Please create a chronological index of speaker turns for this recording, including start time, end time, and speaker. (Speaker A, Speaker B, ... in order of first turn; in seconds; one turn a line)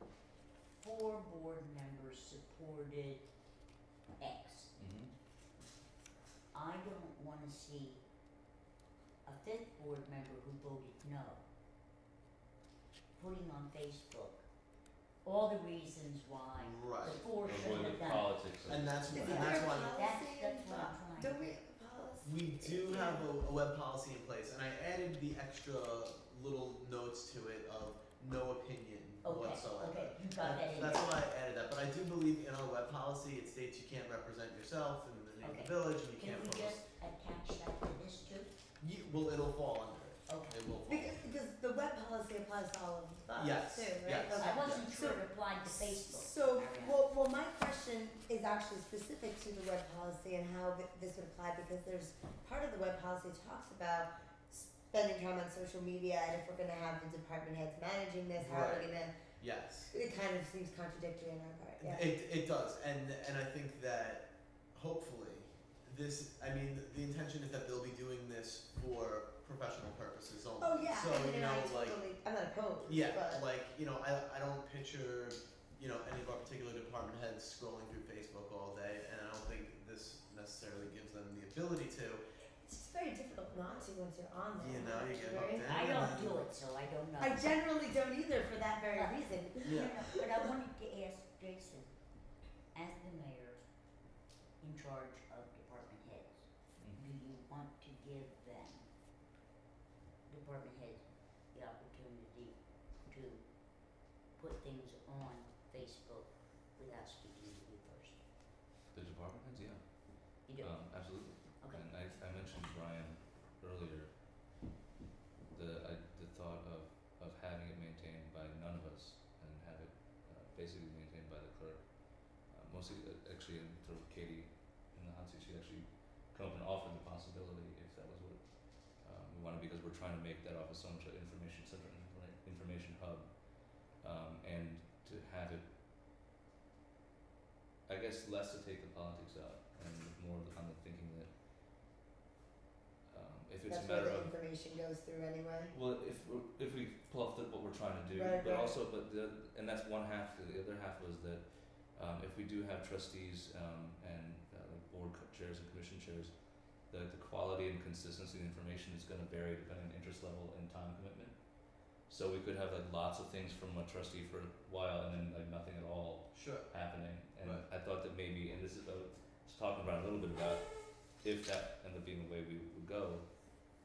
Speaker A: 0.8-3.3
Speaker A: 4.2-4.7
Speaker B: 4.8-5.1
Speaker A: 6.5-8.0
Speaker A: 9.2-11.4
Speaker A: 13.2-14.4
Speaker A: 15.2-18.3
Speaker C: 16.6-17.2
Speaker B: 17.4-19.4
Speaker C: 18.7-20.0
Speaker D: 19.1-23.3
Speaker A: 19.1-21.5
Speaker C: 22.2-36.8
Speaker A: 29.2-31.2
Speaker A: 35.4-38.5
Speaker C: 38.8-41.2
Speaker A: 40.3-40.6
Speaker D: 40.9-59.2
Speaker C: 43.4-44.9
Speaker A: 44.3-47.1
Speaker C: 58.4-59.9
Speaker D: 59.9-62.1
Speaker C: 61.8-72.0
Speaker D: 70.6-73.5
Speaker C: 72.8-82.2
Speaker D: 82.7-85.8
Speaker C: 84.6-86.4
Speaker A: 85.6-87.6
Speaker D: 87.2-89.8
Speaker A: 88.9-91.9
Speaker C: 89.6-90.0
Speaker A: 92.7-93.6
Speaker A: 94.6-98.9
Speaker B: 96.8-97.1
Speaker A: 100.3-108.2
Speaker B: 108.9-114.2
Speaker A: 110.5-111.9
Speaker B: 115.5-135.7
Speaker B: 137.9-141.3
Speaker B: 143.1-144.3
Speaker D: 143.7-145.7
Speaker B: 145.7-173.3
Speaker D: 148.1-148.7
Speaker C: 166.3-166.7
Speaker C: 167.4-167.7